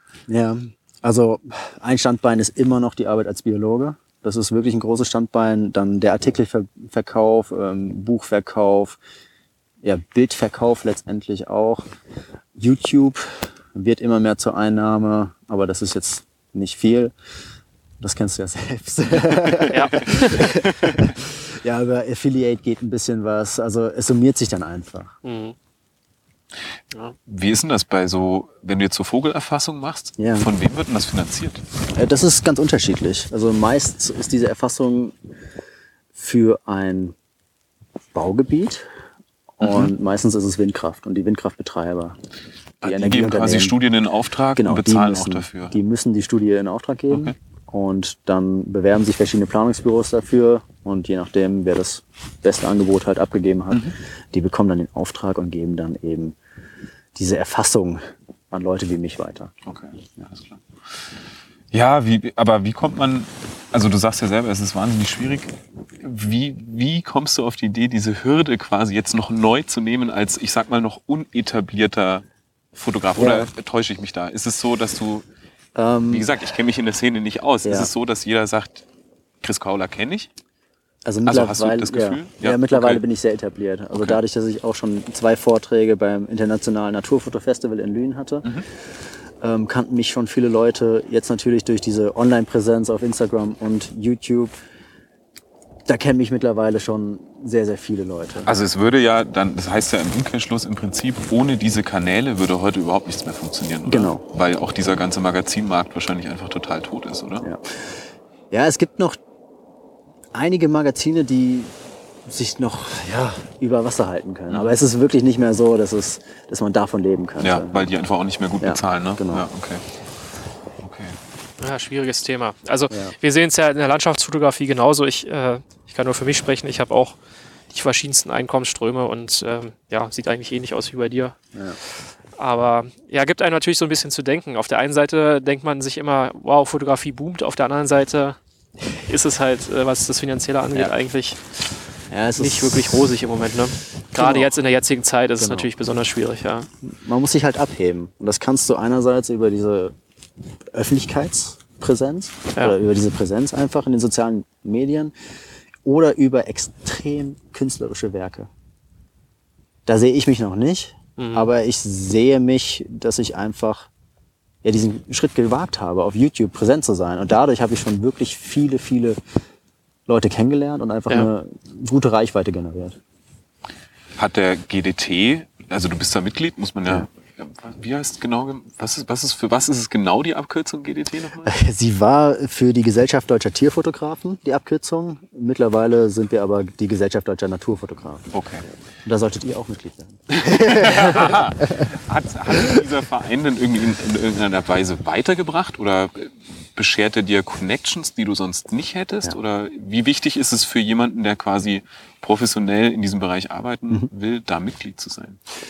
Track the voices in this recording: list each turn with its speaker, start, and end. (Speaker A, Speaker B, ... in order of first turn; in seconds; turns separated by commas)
Speaker A: 0.3-9.0, Speaker A: 9.8-11.9, Speaker A: 12.6-17.1, Speaker A: 18.0-25.1, Speaker B: 19.5-21.1, Speaker C: 19.7-20.6, Speaker C: 25.2-25.6, Speaker B: 27.3-31.6, Speaker A: 30.2-30.5, Speaker A: 31.9-35.1, Speaker A: 36.1-37.1, Speaker A: 38.1-38.9, Speaker A: 39.6-42.2, Speaker B: 39.6-39.9, Speaker A: 42.8-43.8, Speaker B: 42.8-45.7, Speaker A: 44.5-56.4, Speaker A: 57.1-59.5, Speaker B: 59.6-60.6, Speaker B: 61.7-75.2, Speaker A: 73.2-73.5, Speaker A: 75.7-76.3, Speaker B: 76.1-78.8, Speaker A: 77.6-77.9, Speaker B: 79.4-80.3, Speaker A: 81.0-88.5, Speaker B: 81.3-83.0, Speaker B: 83.9-84.2, Speaker A: 89.4-94.5, Speaker A: 95.9-98.5, Speaker B: 98.5-107.5, Speaker A: 103.9-104.2, Speaker A: 107.4-108.0, Speaker A: 108.5-109.2, Speaker A: 110.3-111.7, Speaker A: 112.2-117.9, Speaker B: 114.5-114.8, Speaker B: 117.4-119.8, Speaker A: 118.6-119.5, Speaker B: 120.8-121.2, Speaker C: 121.6-127.2, Speaker C: 127.7-131.4, Speaker C: 132.4-138.4, Speaker C: 138.9-141.4, Speaker A: 142.1-143.1, Speaker C: 142.4-146.7, Speaker A: 144.2-144.6, Speaker A: 145.4-145.7, Speaker A: 146.8-149.9, Speaker A: 150.7-155.1, Speaker A: 155.8-158.5, Speaker A: 159.9-163.9, Speaker C: 161.2-161.5, Speaker A: 164.6-169.2, Speaker A: 170.1-173.0, Speaker B: 174.2-181.5, Speaker A: 181.4-188.3, Speaker B: 188.3-188.6, Speaker A: 189.1-191.9, Speaker B: 190.3-205.4